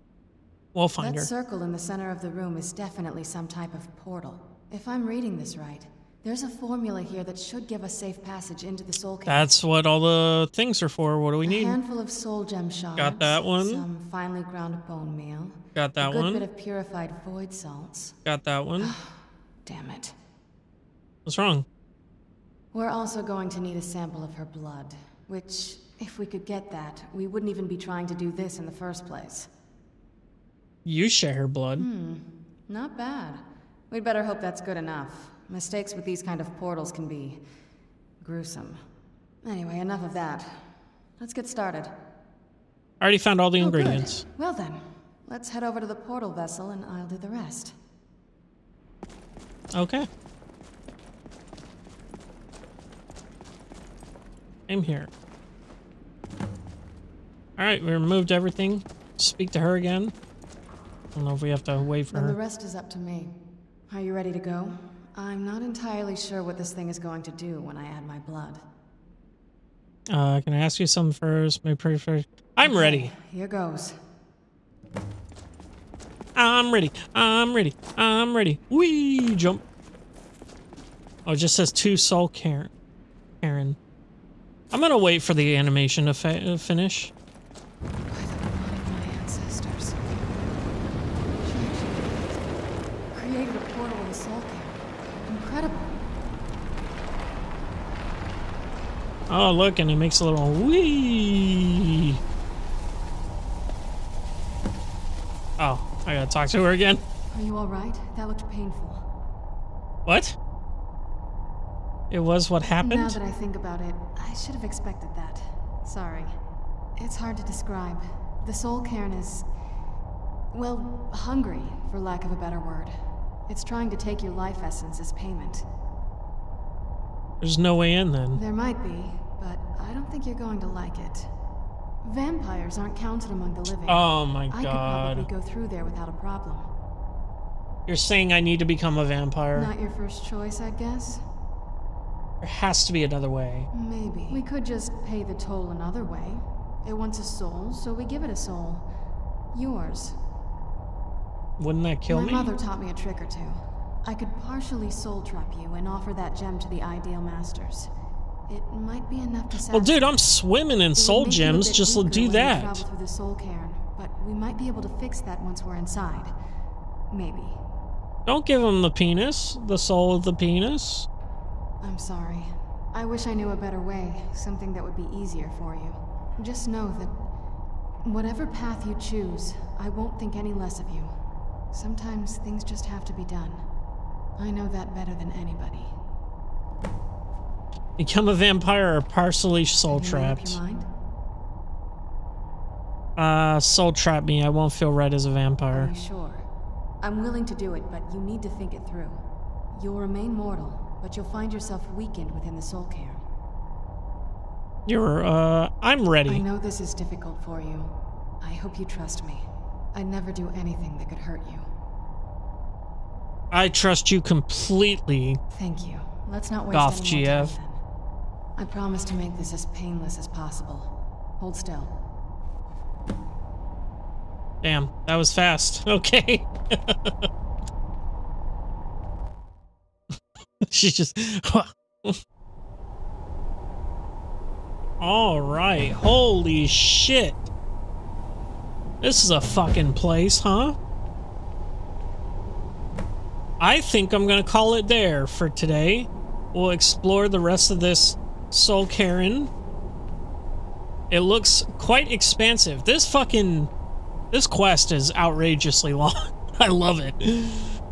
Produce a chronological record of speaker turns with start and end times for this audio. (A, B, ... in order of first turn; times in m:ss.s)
0:00.7-0:01.3 A
0:01.0-0:09.5 B
0:09.3-0:11.8 A
0:11.4-0:18.2 B
0:13.0-0:13.8 A
0:15.8-0:16.5 A
0:18.2-0:19.0 A
0:18.8-0:20.2 B
0:21.3-0:21.7 A
0:22.7-0:29.5 B
0:30.8-0:31.9 A
0:31.8-0:37.4 B
0:38.2-0:38.8 B
0:39.4-0:41.9 B
0:43.0-0:44.2 A
0:43.6-0:47.8 B
0:49.7-0:50.1 A
0:54.7-0:55.1 A
0:57.6-1:00.1 A
1:01.2-1:02.4 A
1:02.1-1:03.4 B
1:03.9-1:08.6 B
1:10.1-1:13.1 A
1:12.6-1:14.0 B
1:16.4-1:19.6 A
1:21.3-1:22.7 A
1:23.4-1:23.8 A
1:24.7-1:27.1 A
1:28.1-1:30.3 B
1:31.4-1:32.5 B
1:33.1-1:36.0 B
1:39.3-1:42.2 A
1:45.6-1:47.0 A
1:47.3-1:49.0 B
1:50.1-1:50.4 A
1:52.1-1:53.2 A
1:52.8-1:56.4 B
1:57.0-1:59.5 B
2:00.5-2:03.0 B
2:03.5-2:05.7 B
2:07.4-2:08.4 A
2:08.3-2:11.3 B
2:12.0-2:16.7 B
2:13.9-2:15.3 A
2:17.9-2:19.7 A
2:19.5-2:21.2 B
2:22.4-2:23.7 A
2:23.7-2:28.9 B
2:29.5-2:30.2 B
2:31.6-2:32.5 A
2:32.1-2:37.9 B
2:38.5-2:40.1 B
2:39.7-2:42.8 A
2:41.0-2:46.3 B
2:47.1-2:47.6 B
2:48.3-2:51.1 A
2:51.8-2:57.2 B
2:58.0-3:01.2 B
3:01.7-3:03.7 B
3:04.4-3:06.0 B
3:08.0-3:10.6 A
3:09.9-3:10.9 B
3:13.2-3:15.9 A
3:15.7-3:16.4 B
3:17.0-3:19.2 B
3:19.7-3:23.2 B
3:24.9-3:26.4 A
3:26.3-3:31.7 B
3:33.5-3:35.4 A
3:35.6-3:37.8 B
3:36.7-3:37.5 A
3:38.6-3:41.9 B
3:44.6-3:47.3 A
3:50.1-3:52.2 A
3:55.0-3:57.5 A
3:59.0-4:00.8 A
4:03.6-4:09.5 A
4:11.1-4:13.7 A
4:14.3-4:17.8 A